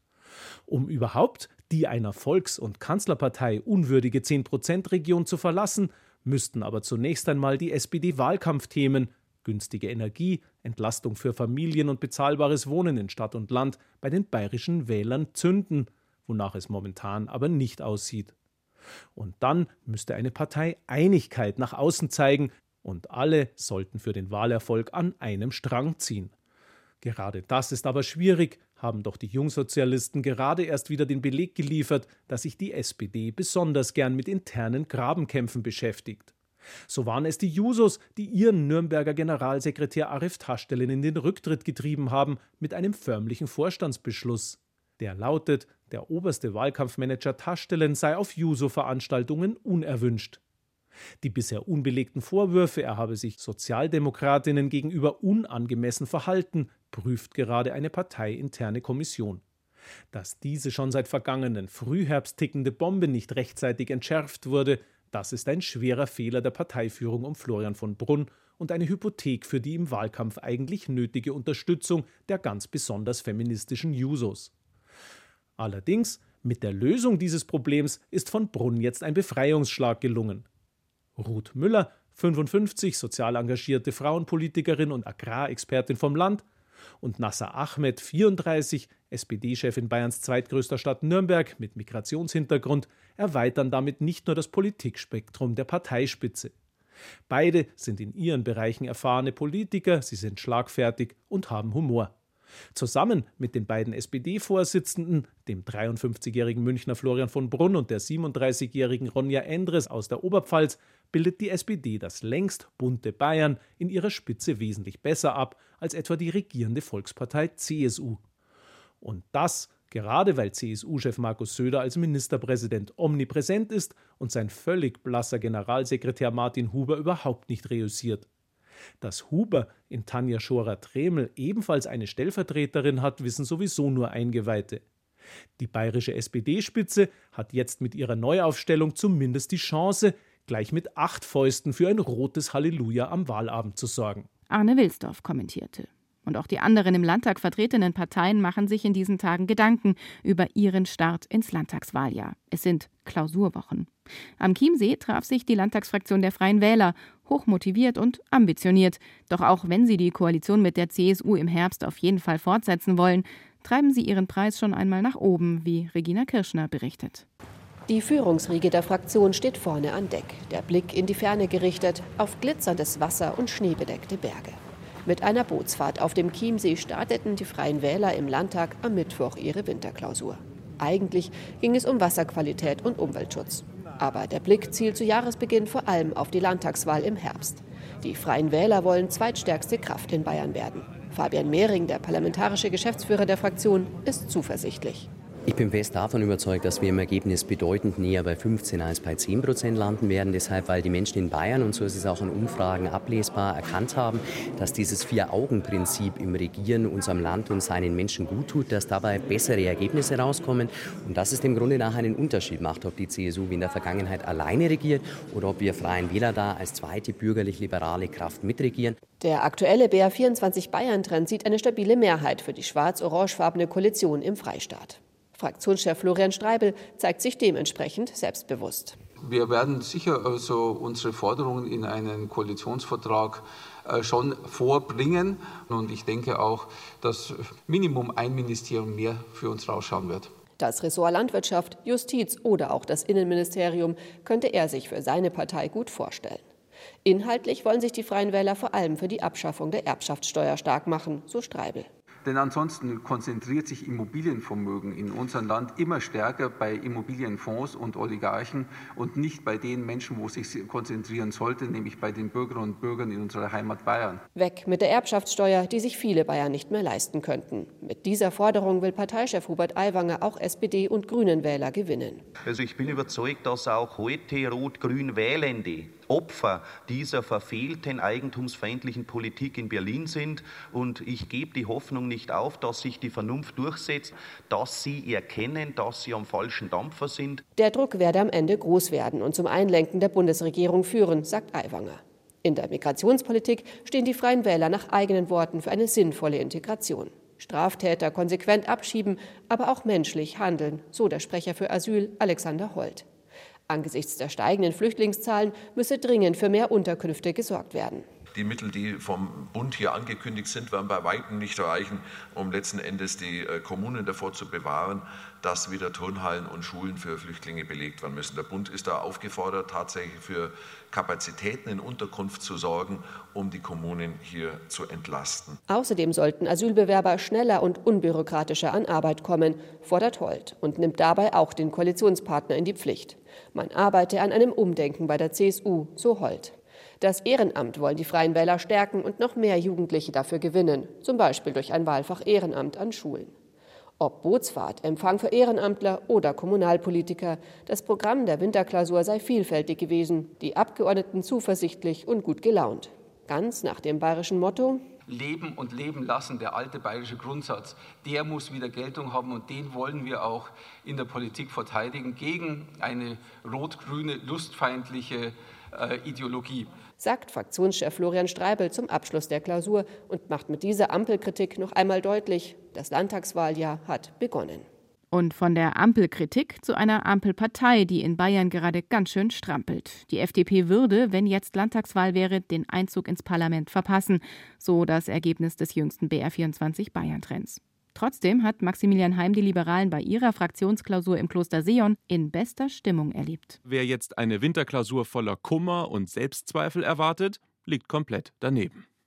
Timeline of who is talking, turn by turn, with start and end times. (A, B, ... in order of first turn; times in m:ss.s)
0:00.7-0:18.3 A
0:19.2-0:26.3 A
0:27.0-0:36.3 A
0:36.9-0:50.4 A
0:51.2-0:59.4 A
1:00.1-1:14.5 A
1:15.6-1:20.4 A
1:21.2-1:26.4 A
1:27.0-1:36.5 A
1:37.3-1:42.1 A
1:42.7-1:58.2 A
1:59.0-2:08.3 A
2:09.0-2:14.8 A
2:15.6-2:24.3 A
2:24.5-2:47.3 B
2:47.9-3:15.1 C
3:15.5-3:39.0 D
3:39.2-3:49.0 C
3:49.2-4:00.3 E
4:00.6-4:06.4 C
4:07.0-4:11.9 C
4:12.2-4:24.2 E
4:24.4-4:32.2 C
4:32.4-4:47.4 F
4:47.6-5:03.1 C
5:03.7-5:08.0 C
5:08.3-5:25.6 G
5:25.7-5:43.3 C
5:44.0-5:54.8 C
5:55.1-6:06.7 E
6:07.0-6:14.7 C
6:15.1-6:33.6 B
6:33.7-6:38.8 H